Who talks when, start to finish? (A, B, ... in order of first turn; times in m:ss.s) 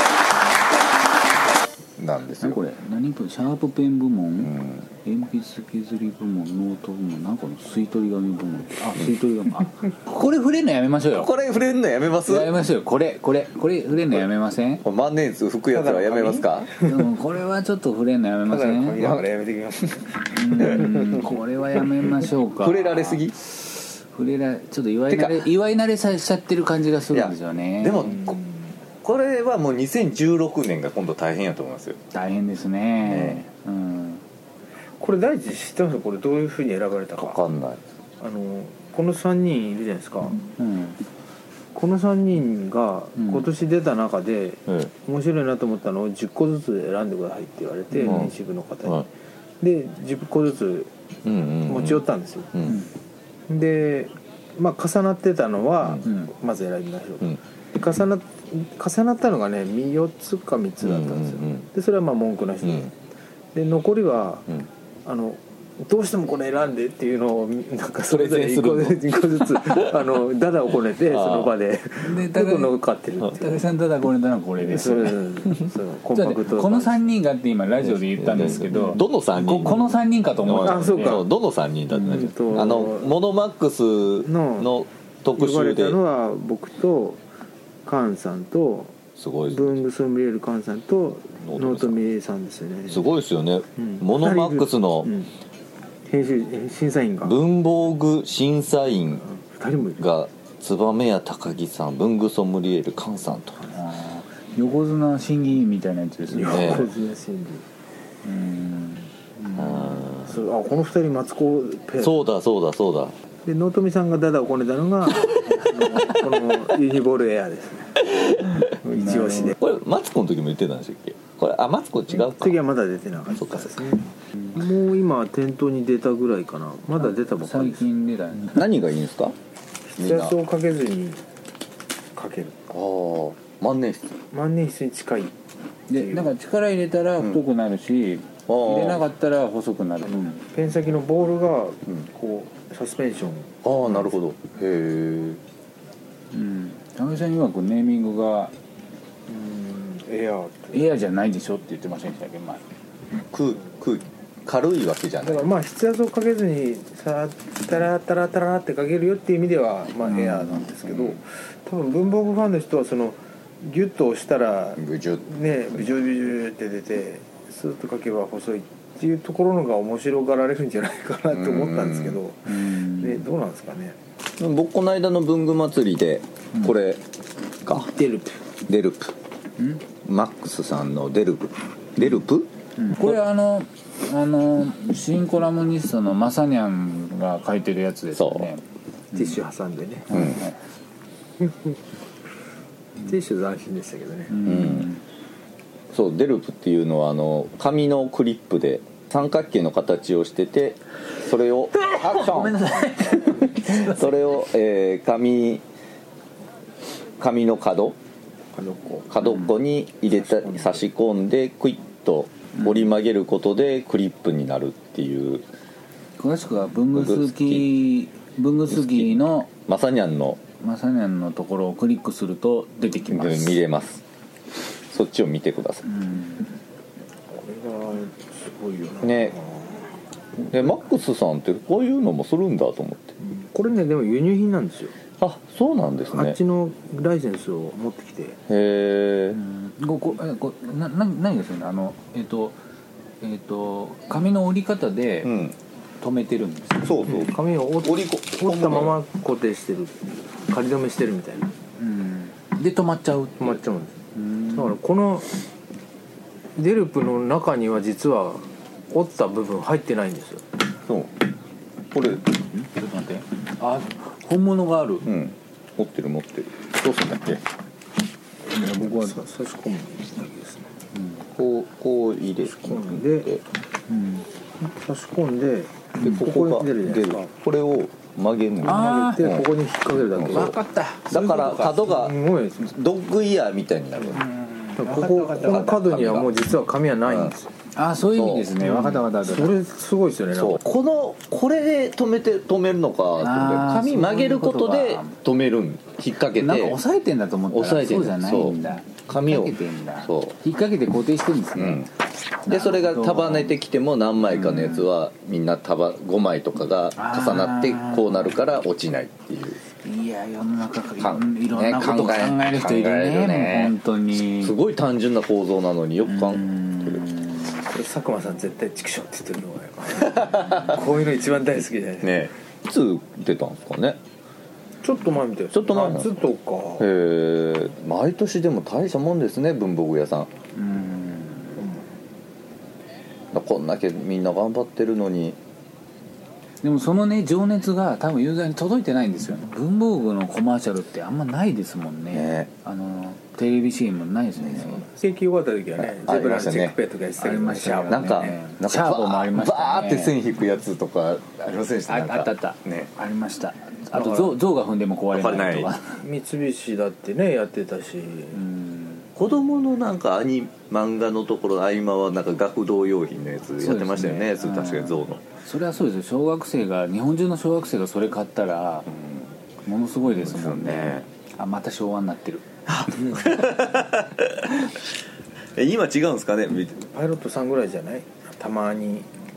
0:02.0-0:02.6 A
0:02.4-0:04.5 B
0:04.4-0:04.9 A
0:05.0-0:11.3 B
0:11.1-0:12.5 A
0:12.2-0:14.8 B
0:14.8-0:16.7 A
0:15.7-0:17.1 C
0:16.8-0:19.0 B
0:18.4-0:21.1 C
0:19.0-0:19.2 A
0:20.3-0:23.2 B
0:20.6-0:21.3 A
0:22.6-0:23.4 A
0:23.8-0:28.1 B
0:25.1-0:25.5 A
0:27.1-0:28.4 A
0:27.9-0:28.8 C
0:29.0-0:32.0 A
0:32.1-0:34.2 B
0:33.0-0:33.4 A
0:35.0-0:37.4 C
0:37.2-0:37.8 A
0:38.2-0:40.4 C
0:40.6-0:41.0 B
0:41.7-0:49.1 C
0:43.2-0:43.5 B
0:48.0-0:48.3 B
0:48.0-0:48.3 A
0:49.6-0:50.9 C
0:51.2-0:52.8 A
0:51.6-0:52.5 C
0:52.6-0:52.9 B
0:53.5-1:02.9 C
0:56.0-0:56.3 B
1:00.8-1:01.7 A
1:03.5-1:04.5 C
1:05.0-1:13.6 C
1:08.0-1:09.7 A
1:11.0-1:11.5 A
1:12.0-1:12.7 B
1:13.3-1:15.2 B
1:14.6-1:17.1 C
1:16.1-1:21.2 B
1:17.9-1:26.0 A
1:20.5-1:21.3 C
1:21.9-1:22.3 B
1:22.0-1:23.2 C
1:24.2-1:24.7 C
1:25.3-1:27.2 C
1:27.8-1:28.9 C
1:29.2-1:29.7 A
1:29.5-1:33.1 C
1:31.4-1:32.0 A
1:32.9-1:35.1 A
1:33.8-1:35.3 C
1:36.1-1:37.4 C
1:37.2-1:39.2 A
1:39.2-1:40.0 C
1:40.0-1:43.6 A
1:43.7-1:46.9 B
1:46.3-1:47.6 C
1:46.5-1:46.8 A
1:48.2-1:50.2 B
1:49.5-1:50.4 A
1:50.2-1:52.3 C
1:52.0-1:53.2 A
1:53.4-1:58.0 C
1:58.0-1:58.7 A
1:58.8-1:59.6 C
1:58.9-1:59.5 B
1:59.5-2:02.6 A
2:02.1-2:07.8 C
2:03.3-2:03.9 A
2:07.0-2:08.7 B
2:08.5-2:09.3 A
2:09.9-2:11.2 C
2:10.0-2:10.3 A
2:12.2-2:12.6 C
2:12.7-2:14.2 A
2:14.3-2:15.3 C
2:15.9-2:20.4 B
2:15.9-2:16.3 C
2:18.5-2:19.0 A
2:20.0-2:23.6 C
2:23.6-2:25.4 A
2:26.3-2:28.5 B
2:29.3-2:30.9 C
2:30.7-2:32.6 B
2:33.3-2:35.5 A
2:35.2-2:54.0 C
2:40.0-2:40.7 B
2:44.8-2:45.2 A
2:51.3-2:52.2 A
2:52.4-2:53.2 B
2:54.4-2:57.0 A
2:57.6-2:57.9 A
2:57.7-2:58.4 C
2:58.7-2:59.1 A
3:00.0-3:03.1 A
3:02.8-3:08.6 B
3:08.1-3:08.5 A
3:09.1-3:10.1 C
3:10.1-3:10.6 B
3:10.1-3:10.4 A
3:13.0-3:14.4 C
3:14.3-3:15.0 B
3:14.4-3:14.9 A
3:15.9-3:22.6 A
3:21.8-3:24.4 B
3:23.6-3:25.6 A
3:27.2-3:28.0 A
3:28.5-3:29.2 C
3:29.1-3:35.5 A
3:30.1-3:30.9 C
3:32.6-3:32.8 B
3:36.2-3:39.5 B
3:36.9-3:37.7 A
3:38.7-3:40.4 A
3:40.6-3:43.6 B
3:43.1-3:44.0 A
3:44.9-3:45.9 A
3:45.8-3:46.5 B
3:47.3-3:49.9 C
3:49.0-3:49.4 A
3:50.5-3:53.2 A
3:53.2-3:54.9 C
3:55.2-3:56.4 A
3:56.1-3:58.4 C
3:58.5-3:59.4 A
3:59.3-4:02.6 B
4:03.2-4:05.3 B
4:05.2-4:05.5 A
4:06.0-4:07.3 B
4:06.8-4:09.0 A
4:07.2-4:11.5 C
4:11.8-4:13.6 B
4:13.4-4:14.0 C
4:14.1-4:14.7 B
4:14.5-4:15.3 C
4:16.6-4:20.4 C
4:21.9-4:22.2 A
4:22.5-4:25.0 B
4:25.0-4:27.4 A
4:28.5-4:30.7 C
4:28.5-4:28.9 B
4:30.9-4:31.2 B
4:31.3-4:33.4 A
4:32.4-4:33.3 C
4:33.9-4:34.3 B
4:34.6-4:37.3 C
4:36.0-4:39.5 A
4:38.6-4:40.6 C
4:38.6-4:39.2 B
4:40.1-4:44.2 A
4:40.3-4:41.8 B
4:41.7-4:42.7 C
4:44.1-4:45.7 B
4:44.8-4:47.5 C
4:45.4-4:46.3 A
4:47.0-4:47.3 A
4:47.7-4:49.5 B
4:48.1-4:48.5 A
4:48.6-4:50.6 C
4:50.3-4:56.8 A
4:53.2-4:55.2 B
4:56.4-5:01.8 B
4:57.5-5:00.4 A
5:01.5-5:01.9 A
5:02.4-5:03.5 B
5:02.5-5:09.6 A
5:04.3-5:04.9 B
5:07.0-5:08.4 B
5:09.8-5:14.6 B
5:11.0-5:17.0 A
5:16.0-5:17.7 B
5:17.7-5:22.2 C
5:20.2-5:20.8 A
5:20.4-5:20.8 B
5:22.0-5:24.0 A
5:24.8-5:26.8 C
5:25.5-5:26.1 A
5:26.8-5:30.3 A
5:30.5-5:31.6 B
5:31.6-5:31.9 C
5:33.3-5:35.4 A
5:36.6-5:44.8 B
5:42.1-5:42.5 A
5:44.5-5:48.3 C
5:45.8-5:46.8 A
5:47.2-5:50.2 B
5:47.9-5:52.9 A
5:51.9-5:56.0 B
5:53.9-5:54.4 C
5:55.1-5:55.7 A
5:56.0-5:58.4 C
5:58.3-5:59.1 B
5:59.2-6:05.2 A
6:03.6-6:08.9 B
6:08.9-6:09.3 A
6:09.6-6:12.4 B
6:10.0-6:11.1 A
6:12.7-6:14.9 A
6:15.6-6:16.8 A
6:16.9-6:19.1 C